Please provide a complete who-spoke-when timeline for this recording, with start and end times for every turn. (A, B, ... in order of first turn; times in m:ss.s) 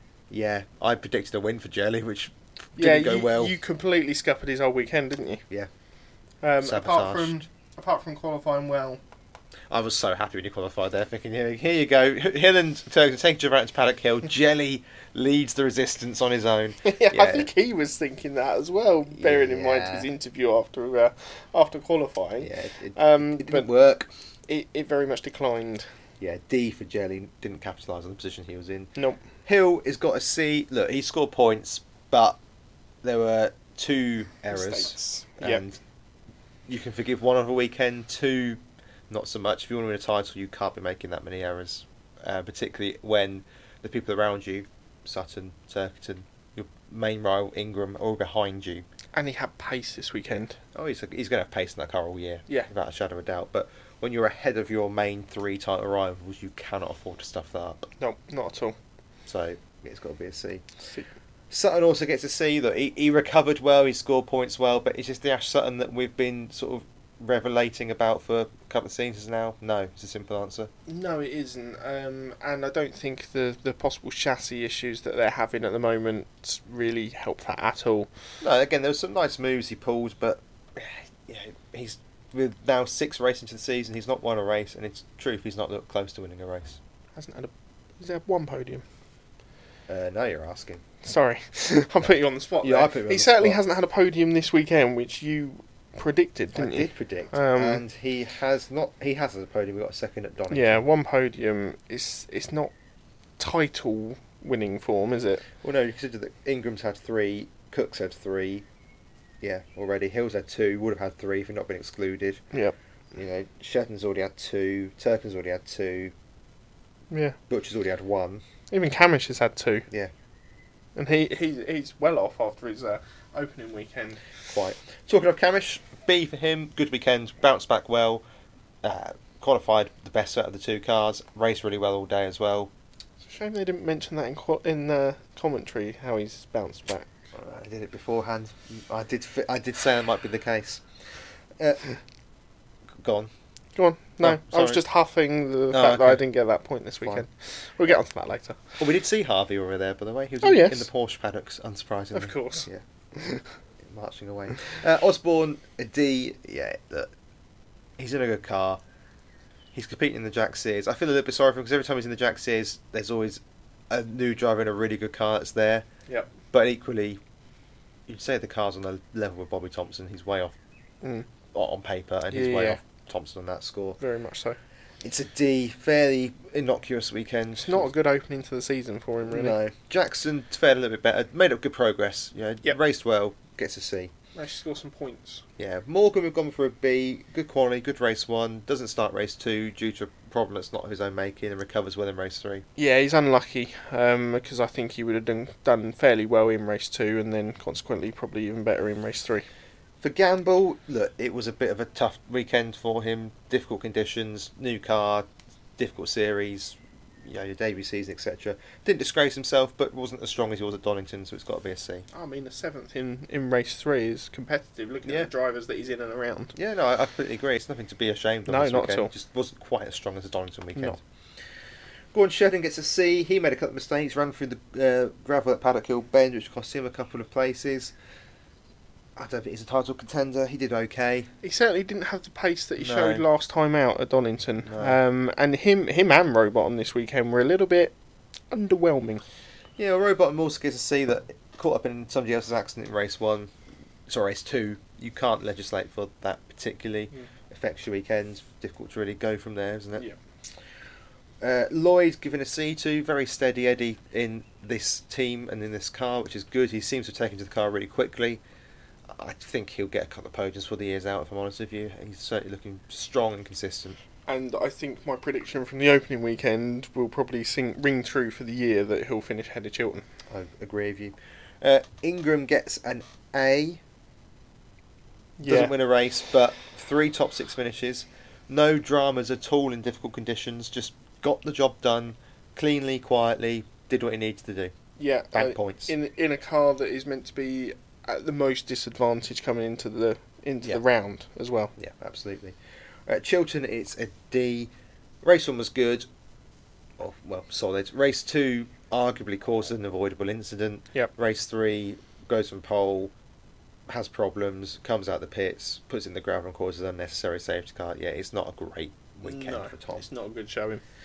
0:00.3-0:03.5 A
0:02.8-0:05.4 B
0:06.4-0:09.0 B
0:06.6-0:07.4 A
0:09.7-0:17.5 A
0:16.8-0:23.7 B
0:19.1-0:20.1 A
0:22.4-0:24.1 A
0:24.5-0:25.9 B
0:26.2-0:28.9 A
0:29.0-0:29.2 B
0:29.4-0:32.4 A
0:33.0-0:35.8 A
0:34.5-0:35.6 B
0:36.7-0:48.8 A
0:49.1-0:50.6 B
0:50.7-0:57.9 A
0:58.0-0:58.8 B
0:59.3-1:00.6 A
1:00.8-1:01.1 B
1:01.5-1:10.7 A
1:10.9-1:18.1 B
1:18.4-1:26.8 A
1:27.2-1:28.8 B
1:29.9-1:30.8 A
1:31.0-1:37.8 B
1:32.6-1:33.6 A
1:36.6-1:40.8 A
1:40.5-1:42.7 B
1:43.4-1:45.4 B
1:45.6-1:48.6 A
1:49.4-1:52.4 A
1:53.1-1:56.1 A
1:57.1-1:57.4 B
1:57.5-1:58.4 A
1:58.7-1:59.9 B
2:01.0-2:04.2 B
2:04.5-2:08.2 A
2:08.8-2:12.7 A
2:13.2-2:17.1 B
2:17.3-2:20.8 A
2:21.6-2:21.9 A
2:23.0-2:23.3 A
2:23.8-2:28.6 B
2:24.2-2:24.8 A
2:25.7-2:26.2 A
2:28.8-2:32.8 A
2:30.4-2:30.8 B
2:32.1-2:33.4 B
2:33.8-2:37.1 A
2:38.0-2:38.8 A
2:39.7-2:45.8 A
2:46.5-2:47.2 A
2:48.1-2:50.5 A
2:51.5-2:54.0 A
2:52.3-2:52.8 B
2:54.0-2:54.6 B
2:55.0-2:57.9 A
2:57.6-2:59.6 B
2:59.3-3:04.1 A
3:04.3-3:05.4 B
3:05.6-3:12.6 A
3:12.8-3:19.4 B
3:20.0-3:32.0 A
3:32.1-3:36.5 B
3:36.5-3:41.0 A
3:38.5-3:39.1 B
3:42.1-3:47.9 A
3:49.2-3:51.3 A
3:51.4-3:57.9 B
3:52.8-3:53.2 A
3:54.6-3:55.0 A
3:58.5-3:59.2 B
3:59.8-4:03.5 A
4:04.1-4:10.0 A
4:11.4-4:18.4 A
4:19.1-4:24.0 A
4:24.3-4:30.0 B
4:30.3-4:33.8 A
4:35.4-4:35.7 B
4:35.4-4:44.7 A
4:45.0-4:51.7 B
4:45.3-4:45.9 A
4:51.8-4:54.7 A
4:55.2-4:56.1 A
4:57.0-5:03.1 A
5:03.9-5:10.0 A
5:09.2-5:10.8 B